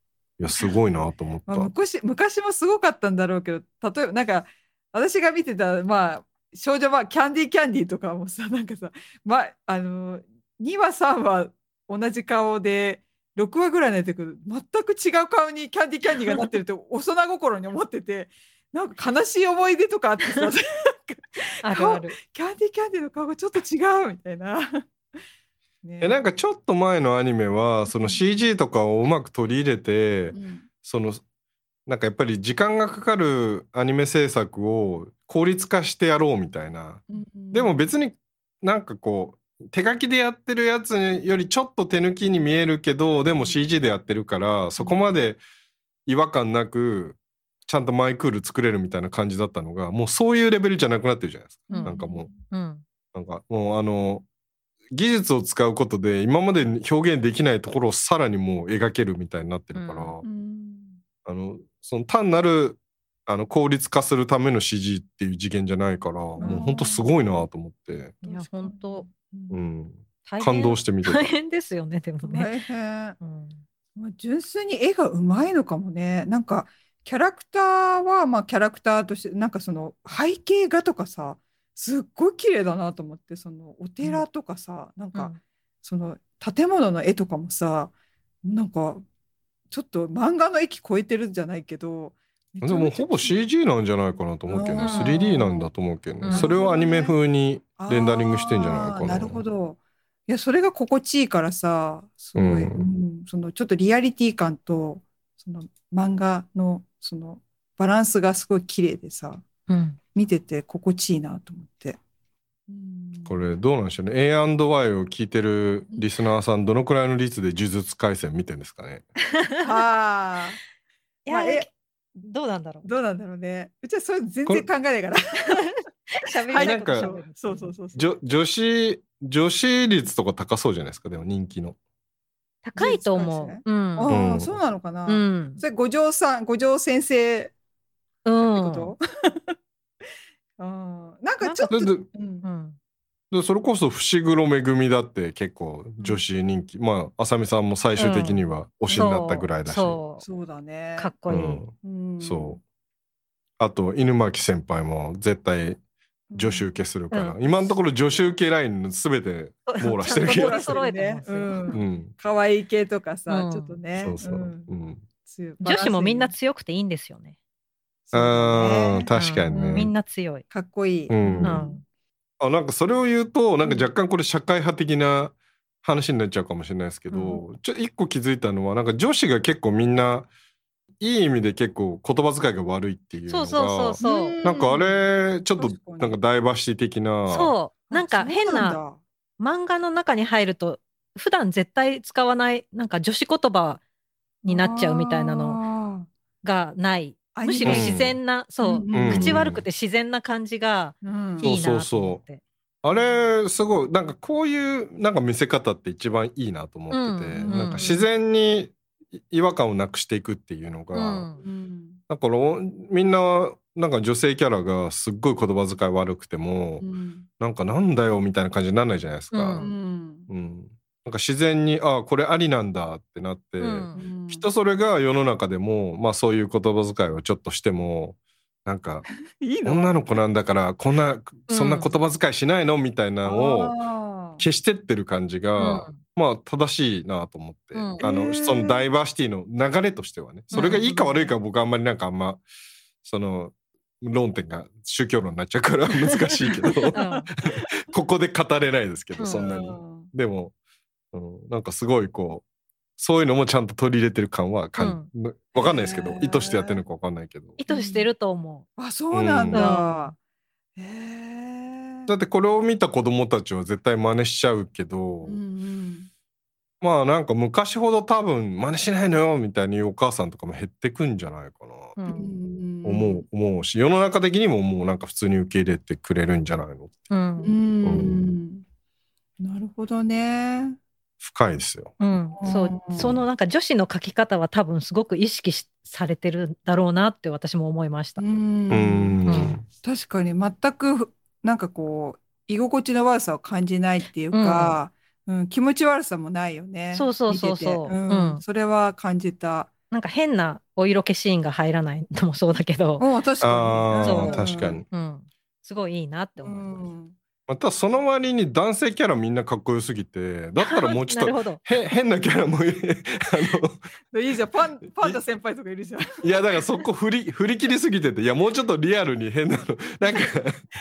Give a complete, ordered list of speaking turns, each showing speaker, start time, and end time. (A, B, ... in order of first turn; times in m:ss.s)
0:00.4-0:01.7 A
0:01.5-0:24.8 B
0:21.6-0:22.2 C
0:25.8-0:26.2 B
0:26.0-0:31.2 A
0:27.9-0:28.2 B
0:30.3-0:30.7 B
0:31.9-0:45.4 A
0:37.1-0:37.9 B
0:44.8-0:45.0 B
0:46.0-0:52.3 A
0:51.7-0:52.4 B
0:51.7-0:52.8 C
0:53.1-0:54.3 A
0:54.9-1:00.2 A
0:59.7-1:00.2 C
1:00.2-1:01.0 B
1:01.2-1:08.2 A
1:06.4-1:07.1 B
1:08.2-1:09.1 C
1:08.2-1:09.6 B
1:09.5-1:11.3 A
1:10.3-1:12.5 C
1:12.2-1:13.2 B
1:13.2-1:13.6 C
1:14.0-1:27.9 B
1:28.4-1:29.0 B
1:29.7-1:33.4 B
1:32.6-1:39.4 A
1:34.5-1:35.7 B
1:34.8-1:35.2 C
1:36.2-1:36.6 C
1:36.3-1:37.2 B
1:37.8-1:49.4 B
1:42.4-1:42.9 A
1:49.7-1:50.0 C
1:50.1-1:52.0 B
1:52.7-1:53.4 B
1:53.3-1:59.0 A
1:59.4-1:59.7 C
1:59.6-2:00.6 B
2:01.3-2:01.7 C
2:01.3-2:01.7 B
2:02.2-2:02.9 C
2:02.8-2:08.1 B
2:06.1-2:07.8 C
2:06.6-2:07.1 A
2:07.9-2:11.8 A
2:12.6-2:14.1 C
2:12.8-2:17.5 B
2:14.1-2:14.6 A
2:15.1-2:15.6 C
2:18.2-2:18.9 C
2:18.4-2:19.6 B
2:20.6-2:22.4 B
2:21.4-2:21.7 C
2:21.7-2:22.1 A
2:22.4-2:22.8 C
2:23.3-2:30.0 A
2:28.0-2:28.4 C
2:28.9-2:29.2 B
2:28.9-2:30.2 C
2:30.2-2:31.1 B
2:31.0-2:31.6 C
2:31.3-2:32.6 A
2:31.8-2:32.6 B
2:33.6-2:35.8 A
2:36.3-2:36.7 B
2:36.3-2:40.7 A
2:37.1-2:37.6 C
2:39.7-2:41.8 C
2:40.0-2:44.7 B
2:41.7-2:42.1 A
2:43.3-2:43.8 C
2:44.0-2:45.0 A
2:45.2-2:46.3 B
2:45.6-2:47.4 C
2:48.1-2:49.9 B
2:48.1-2:49.9 A
2:49.1-2:50.4 C
2:50.5-2:51.8 B
2:51.1-2:51.6 A
2:51.4-2:51.8 C
2:52.4-3:00.3 A
2:57.1-2:57.4 C
3:01.0-3:07.5 A
3:03.3-3:04.4 C
3:04.0-3:05.0 B
3:05.6-3:06.2 B
3:07.3-3:08.8 C
3:07.9-3:09.0 B
3:09.4-3:13.8 C
3:14.4-3:15.6 C
3:14.5-3:16.1 B
3:16.4-3:22.4 C
3:17.4-3:18.0 B
3:17.6-3:18.2 A
3:18.6-3:19.4 B
3:18.9-3:19.6 A
3:21.0-3:21.5 B
3:21.4-3:22.2 A
3:22.8-3:31.3 A
3:26.9-3:27.9 C
3:27.4-3:28.1 B
3:30.9-3:31.4 C
3:31.4-3:32.0 B
3:32.1-3:36.8 A
3:36.8-3:37.3 B
3:37.4-3:39.7 A
3:39.3-3:39.7 C
3:39.6-3:40.3 B
3:40.3-3:49.0 A
3:43.6-3:44.0 C
3:43.9-3:44.5 B
3:49.4-3:50.2 B
3:49.6-3:53.7 A
3:51.5-3:51.9 C
3:53.2-3:54.4 B
3:54.4-4:02.4 A
3:55.6-3:56.0 C
3:57.7-3:58.0 C
3:58.0-3:58.9 B
4:00.5-4:00.8 B
4:00.5-4:01.3 C
4:03.0-4:07.0 A
4:06.7-4:07.7 B
4:06.9-4:07.3 C
4:07.5-4:10.5 A
4:09.2-4:09.4 C
4:09.3-4:10.1 B
4:11.1-4:12.4 A
4:13.0-4:17.6 A
4:14.8-4:15.1 C
4:15.6-4:16.8 B
4:17.6-4:18.7 C
4:17.7-4:18.1 B
4:18.8-4:20.2 B
4:19.1-4:19.7 A
4:19.5-4:20.1 C
4:20.8-4:22.1 B
4:22.1-4:25.4 A
4:25.2-4:26.1 B
4:26.8-4:31.9 A
4:32.0-4:32.4 C
4:32.1-4:33.2 B
4:32.8-4:37.0 A
4:37.1-4:37.6 C
4:37.4-4:38.6 B
4:37.8-4:38.3 A
4:39.4-4:40.8 B
4:41.2-4:41.9 A
4:42.0-4:48.3 C
4:42.4-4:43.1 B
4:48.2-4:59.7 B
4:48.7-4:49.6 A
4:49.3-4:49.5 C
4:54.3-4:54.8 C
4:56.9-4:58.4 C
4:59.9-5:03.0 C
5:03.0-5:04.8 B
5:03.4-5:04.9 A
5:04.0-5:06.7 C
5:06.4-5:07.2 B
5:07.5-5:13.8 A
5:10.6-5:11.6 C
5:14.1-5:16.2 B
5:16.2-5:20.6 A